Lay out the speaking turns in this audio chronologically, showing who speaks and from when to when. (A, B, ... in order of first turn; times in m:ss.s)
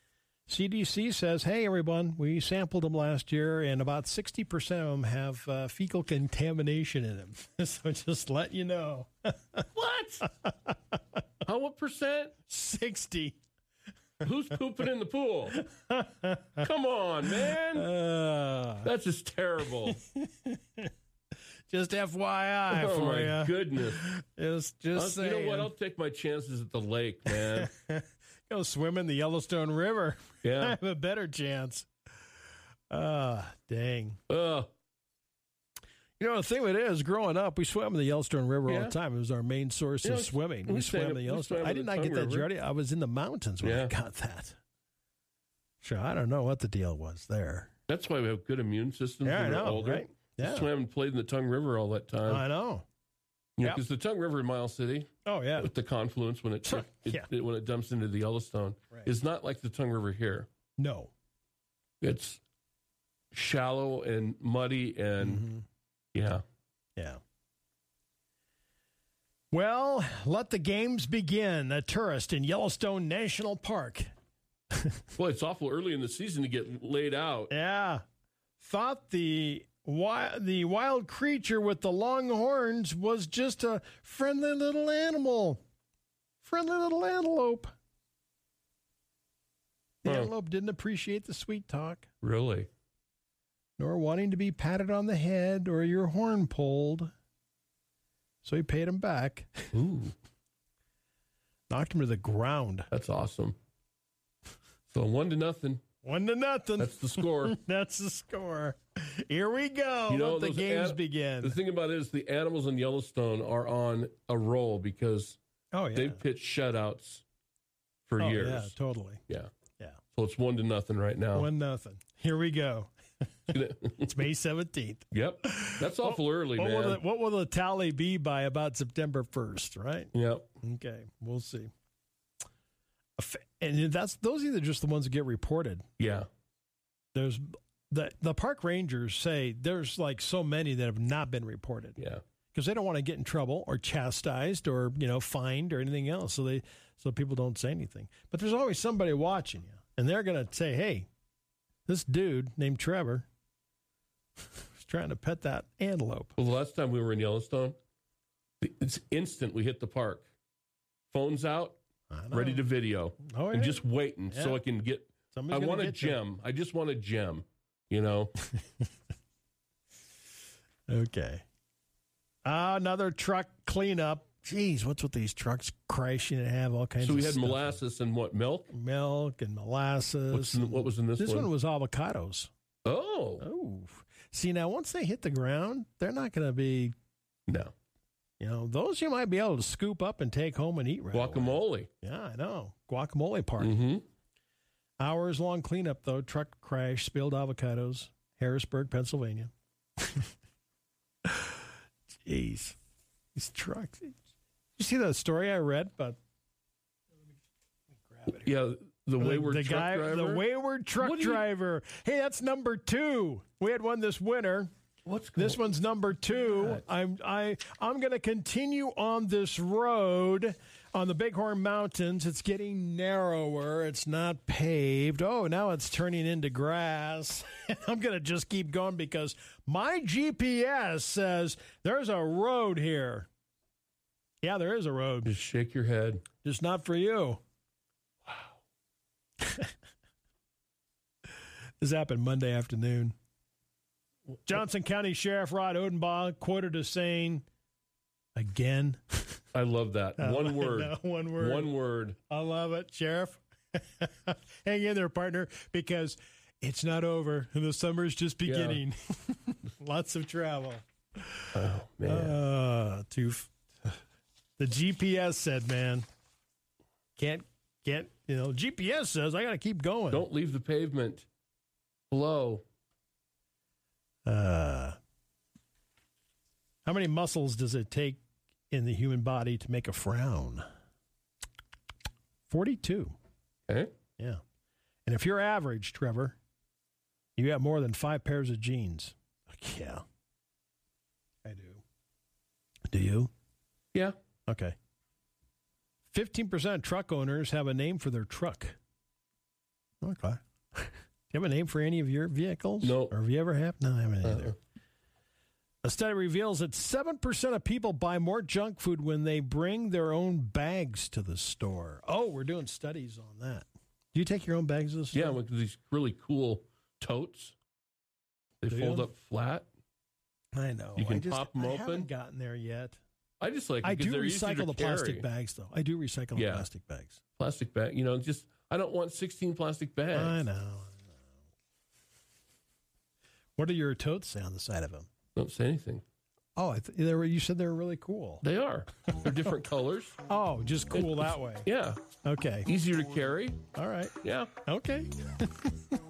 0:00.5-0:09.7 A
0:09.8-0:10.3 B
0:10.4-0:10.8 A
0:11.4-0:12.3 B
0:12.5-0:13.4 A
0:14.2-0:15.6 B
0:15.5-0:16.7 A
0:16.6-0:17.9 B
0:17.3-0:18.9 A
0:18.8-0:20.0 B
0:19.8-0:20.9 A
0:21.7-0:25.7 A
0:22.7-0:24.0 B
0:25.0-0:27.7 B
0:27.3-0:31.9 A
0:30.4-0:30.8 B
0:32.9-0:34.2 A
0:34.3-0:34.7 B
0:36.2-0:44.6 A
0:38.7-0:39.0 B
0:40.0-0:42.5 B
0:43.6-0:43.9 B
0:45.8-0:47.7 A
0:47.9-0:52.4 B
0:49.2-0:50.7 A
0:52.3-0:52.8 A
0:53.6-1:00.5 B
0:55.2-0:55.7 A
0:56.7-0:57.3 A
1:00.8-1:01.1 A
1:02.0-1:02.4 B
1:03.3-1:05.4 B
1:05.2-1:05.6 A
1:06.1-1:06.4 B
1:09.5-1:14.1 A
1:14.7-1:15.0 A
1:15.2-1:17.5 B
1:17.5-1:18.0 A
1:18.6-1:25.6 A
1:26.4-1:27.7 A
1:30.0-1:32.1 A
1:30.0-1:30.3 B
1:32.2-1:32.7 B
1:33.8-1:37.1 A
1:38.4-1:39.7 A
1:39.7-1:40.1 B
1:41.7-1:42.9 A
1:42.9-1:43.6 B
1:44.9-1:45.8 B
1:46.0-1:51.6 A
1:46.8-1:47.6 B
1:50.1-1:55.4 B
1:55.7-1:56.2 A
1:55.9-1:57.2 B
1:58.1-1:58.7 B
1:58.2-1:59.2 A
2:00.2-2:01.5 B
2:01.4-2:02.9 A
2:03.5-2:11.7 A
2:03.5-2:04.1 B
2:05.1-2:07.0 B
2:10.1-2:10.5 B
2:13.2-2:15.9 A
2:16.0-2:16.3 B
2:17.1-2:22.0 A
2:22.0-2:22.2 B
2:22.5-2:31.1 A
2:31.9-2:33.3 A
2:34.6-2:36.4 A
2:36.4-2:37.8 B
2:38.6-2:40.3 B
2:41.1-2:41.8 B
2:42.1-2:42.7 A
2:42.3-2:48.3 B
2:43.2-2:44.6 A
2:45.3-2:46.2 A
2:50.9-2:51.4 A
2:52.4-2:57.8 A
2:57.0-2:58.7 B
2:58.7-3:02.5 A
3:00.3-3:01.5 B
3:02.8-3:03.4 B
3:03.4-3:06.9 A
3:07.5-3:07.7 B
3:08.4-3:13.8 A
3:11.1-3:11.9 B
3:13.6-3:14.0 B
3:15.0-3:20.3 A
3:21.3-3:21.6 A
3:22.2-3:22.8 A
3:23.4-3:24.2 A
3:24.8-3:26.2 A
3:28.0-3:28.5 A
3:28.4-3:30.4 B
3:29.2-3:34.7 A
3:31.0-3:31.5 B
3:35.1-3:35.7 B
3:35.4-3:53.3 A
3:36.2-3:36.8 B
3:54.4-3:55.3 A
3:55.2-3:56.2 B
3:56.4-3:57.4 A
3:59.4-3:59.7 A
4:01.8-4:03.2 A
4:04.5-4:07.4 A
4:08.4-4:09.4 A
4:09.5-4:12.2 B
4:10.2-4:11.7 A
4:12.3-4:21.5 A
4:18.4-4:18.8 B
4:21.5-4:22.4 B
4:22.0-4:24.0 A
4:24.6-4:26.0 A
4:27.2-4:30.3 A
4:30.1-4:31.3 B
4:32.1-4:32.6 B
4:34.3-4:35.0 A
4:36.9-4:40.7 A
4:42.5-4:43.2 A
4:45.1-4:46.4 A
4:47.4-4:50.0 A
4:51.4-4:51.8 A
4:52.9-4:53.3 A
4:54.5-4:54.8 A
4:56.1-4:58.8 A
5:00.0-5:04.6 A
5:02.8-5:03.1 B
5:04.2-5:04.5 B
5:05.8-5:15.4 A
5:15.1-5:17.6 B
5:18.6-5:19.7 B
5:18.7-5:19.1 A
5:20.6-5:23.0 A
5:21.0-5:22.1 B
5:23.4-5:25.3 B
5:23.8-5:27.2 A
5:26.4-5:26.7 B
5:27.4-5:30.4 B
5:30.1-5:31.2 A
5:33.6-5:35.1 A
5:35.4-5:36.0 B
5:36.6-5:38.4 A
5:38.4-5:40.2 B
5:40.3-5:41.7 A
5:40.9-5:42.0 B
5:42.2-5:42.7 A
5:42.6-5:43.6 B
5:43.8-5:45.8 A
5:44.2-5:44.5 B